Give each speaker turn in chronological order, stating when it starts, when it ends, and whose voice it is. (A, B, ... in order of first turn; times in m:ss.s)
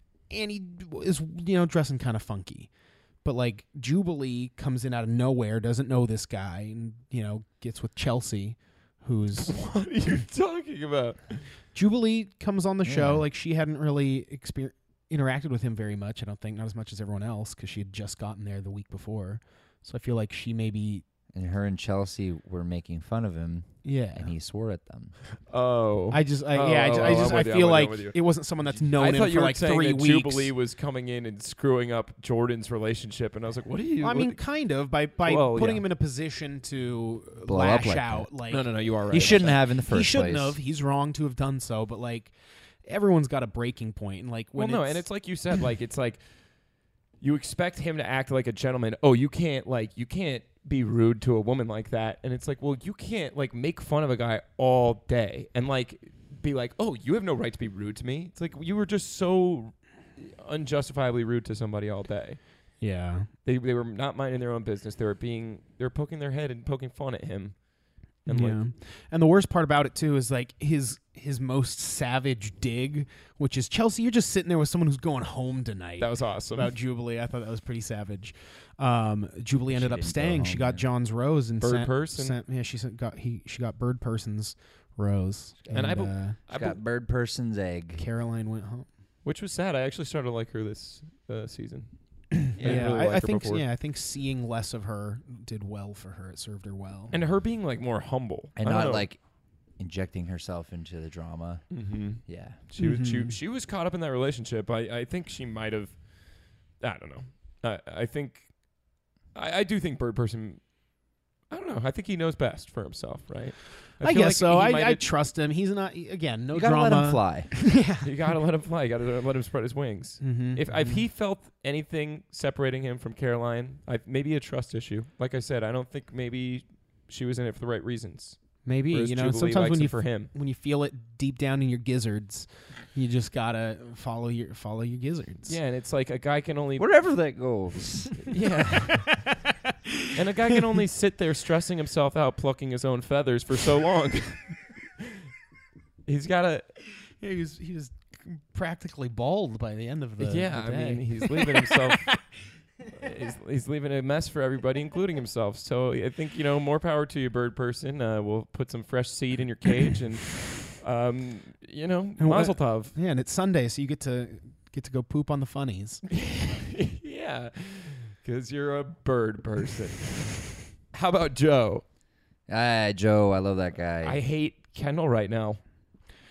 0:00.3-0:09.6 A
0:09.4-0:11.4 B
0:11.7-0:21.0 A
0:12.8-0:13.2 C
0:21.3-0:25.2 C
0:23.8-0:24.3 A
0:25.5-0:28.2 B
0:26.1-0:30.5 A
0:28.9-0:34.4 B
0:34.0-0:42.3 A
0:35.2-0:35.8 B
0:37.4-0:38.3 C
0:38.5-0:39.6 B
0:39.1-0:40.6 C
0:42.8-0:45.0 A
0:44.5-0:46.2 B
0:47.2-1:02.4 B
1:02.8-1:03.3 A
1:03.4-1:07.6 B
1:08.2-1:08.6 B
1:08.3-1:26.4 A
1:16.0-1:16.7 B
1:19.7-1:20.8 C
1:21.6-1:22.4 B
1:25.6-1:28.0 C
1:25.7-1:26.8 B
1:28.0-1:28.9 A
1:29.2-1:33.6 B
1:32.4-1:37.2 A
1:32.6-1:32.9 C
1:37.1-1:39.1 B
1:38.6-1:42.6 C
1:41.7-1:48.6 B
1:42.8-1:43.4 A
1:49.3-1:50.7 B
1:51.5-1:55.0 B
1:54.0-1:58.1 A
1:56.5-1:57.6 C
1:58.0-2:10.3 B
2:00.2-2:01.0 A
2:08.6-2:15.6 A
2:15.5-2:16.9 B
2:16.8-2:18.3 C
2:18.3-2:19.1 B
2:19.0-2:19.3 A
2:20.1-2:24.6 B
2:26.0-2:26.7 B
2:27.2-2:32.3 A
2:30.2-2:32.2 B
2:32.9-2:42.9 B
2:42.2-2:46.0 A
2:46.1-2:51.8 B
2:52.5-2:54.2 C
2:54.0-2:55.6 B